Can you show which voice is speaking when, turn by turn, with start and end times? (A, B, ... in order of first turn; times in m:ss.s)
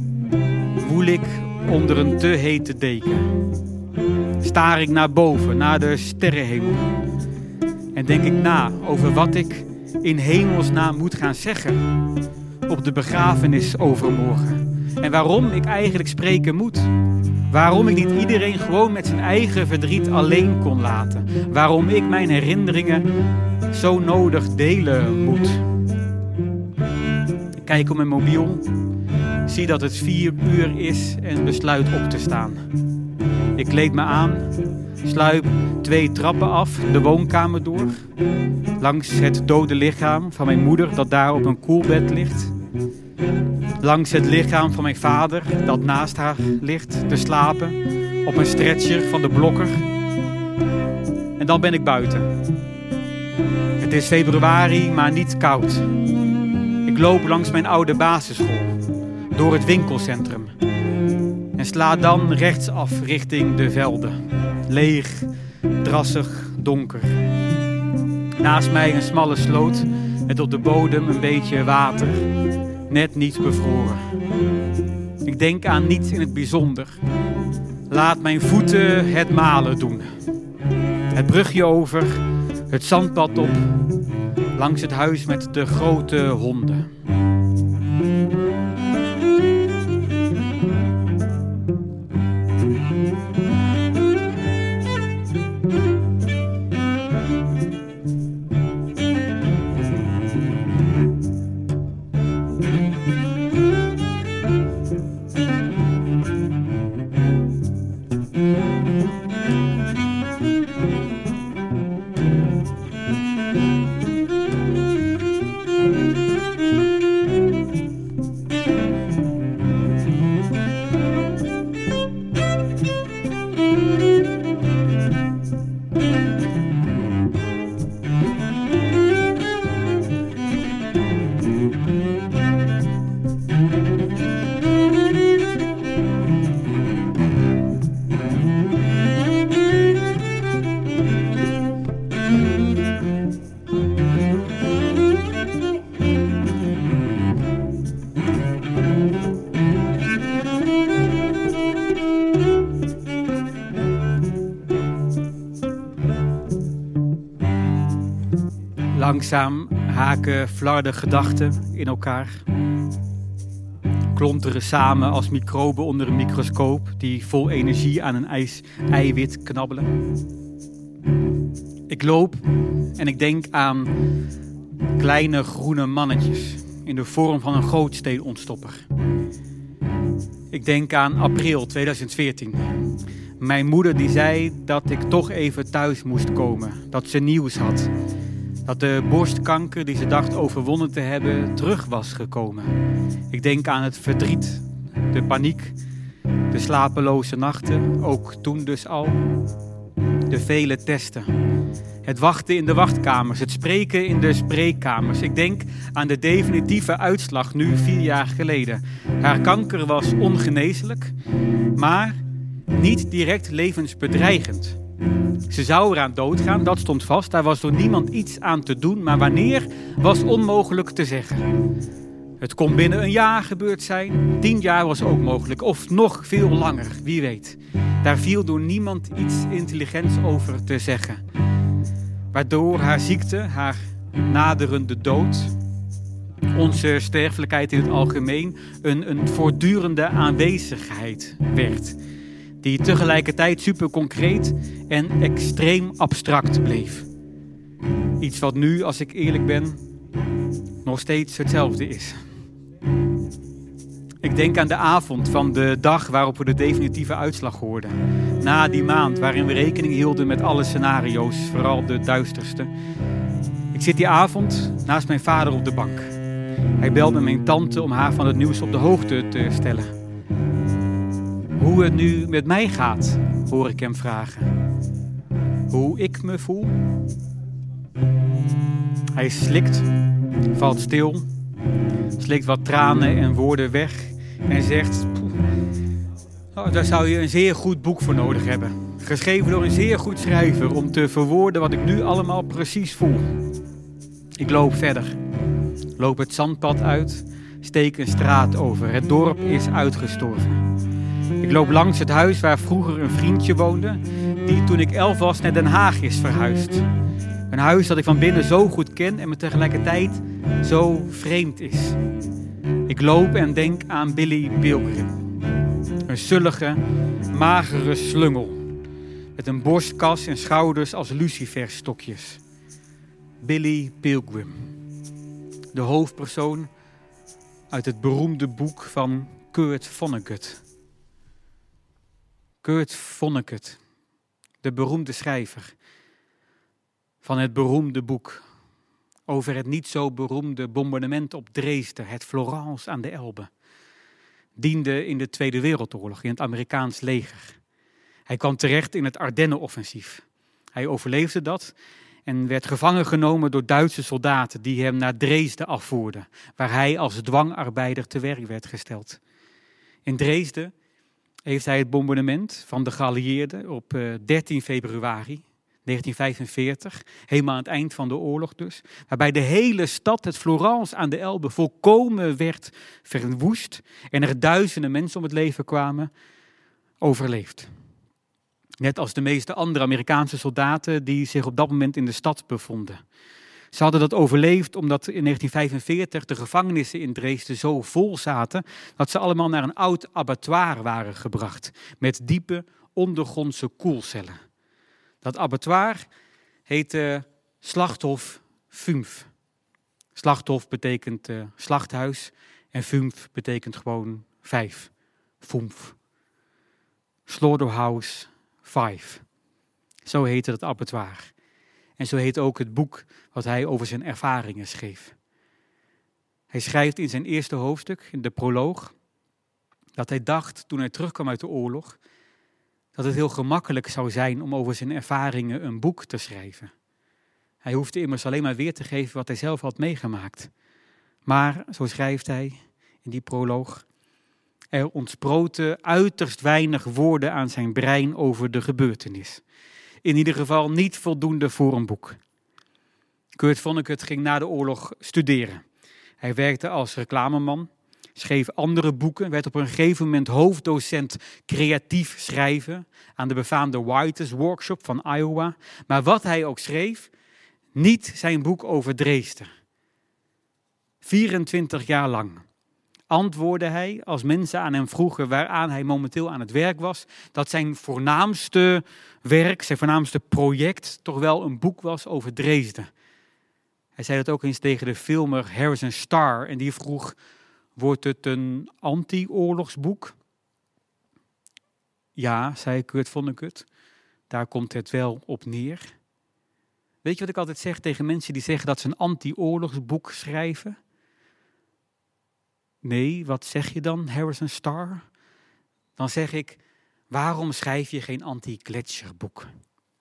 0:00.8-0:03.3 A
0:04.4-0:06.9 A
0:07.9-0:11.8 A
0:12.7-0:16.9 A
0:17.5-0:23.0 A
0:23.7-0:25.6 A
0:27.6-0:28.7 A
0:29.4-0:32.6 A
0:33.6-0:38.0 A
0:38.8-0:42.5 A
0:43.8-0:49.8 A
0:51.4-0:52.3 A
0:53.8-0:55.9 A
0:56.8-0:58.8 A
0:59.3-1:00.5 A
1:01.6-1:05.3 A
1:05.8-1:07.2 A
1:08.4-1:12.3 A
1:12.9-1:14.1 A
1:15.2-1:17.0 A
1:17.9-1:20.1 A
1:21.1-1:23.8 A
1:24.6-1:26.9 A
2:38.9-2:42.4 A
2:44.1-2:49.9 A
2:51.9-2:52.4 A
2:53.0-2:53.9 A
2:55.0-2:58.8 A
3:00.5-3:02.8 A
3:03.4-3:07.9 A
3:08.6-3:12.7 A
3:13.3-3:15.8 A
3:16.5-3:19.2 A
3:20.3-3:21.3 A
3:22.0-3:31.1 A
3:31.7-3:34.8 A
3:35.5-3:41.6 A
3:42.4-3:51.2 A
3:52.3-3:55.5 A
3:56.5-4:02.0 A
4:02.6-4:07.1 A
4:08.2-4:09.8 A
4:10.8-4:12.2 A
4:14.2-4:22.7 A
4:23.7-4:26.2 A
4:26.8-4:29.9 A
4:31.6-4:34.6 A
4:35.7-4:36.8 A
4:39.1-4:39.9 A
4:40.5-4:41.3 A
4:42.1-4:45.4 A
4:46.5-4:53.3 A
4:54.4-4:55.2 A
4:56.0-5:00.6 A
5:01.4-5:06.9 A
5:07.5-5:12.0 A
5:12.9-5:15.1 A
5:16.0-5:18.6 A
5:19.4-5:22.4 A
5:23.4-5:24.7 A
5:25.7-5:26.7 A
5:27.7-5:30.6 A
5:32.6-5:33.8 A
5:34.6-5:35.7 A
5:37.2-5:38.4 A
5:39.3-5:43.5 A
5:44.6-5:47.6 A
5:48.3-5:51.7 A
5:52.2-5:59.2 A
6:00.0-6:00.7 A
6:01.4-6:16.1 A
6:17.0-6:17.7 A
6:18.8-6:23.0 A
6:23.7-6:34.4 A
6:35.2-6:36.1 A
6:36.7-6:39.3 A
6:40.1-6:46.0 A
6:47.2-6:49.2 A
6:50.0-6:51.3 A
6:52.0-6:55.2 A
6:56.5-6:58.9 A
7:00.0-7:02.0 A
7:02.9-7:06.7 A
7:07.6-7:10.5 A
7:11.2-7:13.8 A
7:14.7-7:19.4 A
7:20.0-7:22.2 A
7:23.3-7:25.6 A
7:26.2-7:37.1 A
7:37.7-7:39.5 A
7:41.0-7:42.4 A
7:43.1-7:52.9 A
7:54.0-7:57.2 A
7:57.8-8:00.2 A
8:02.2-8:03.7 A
8:04.3-8:05.9 A
8:07.0-8:10.8 A
8:12.8-8:15.0 A
8:16.0-8:16.6 A
8:17.1-8:19.5 A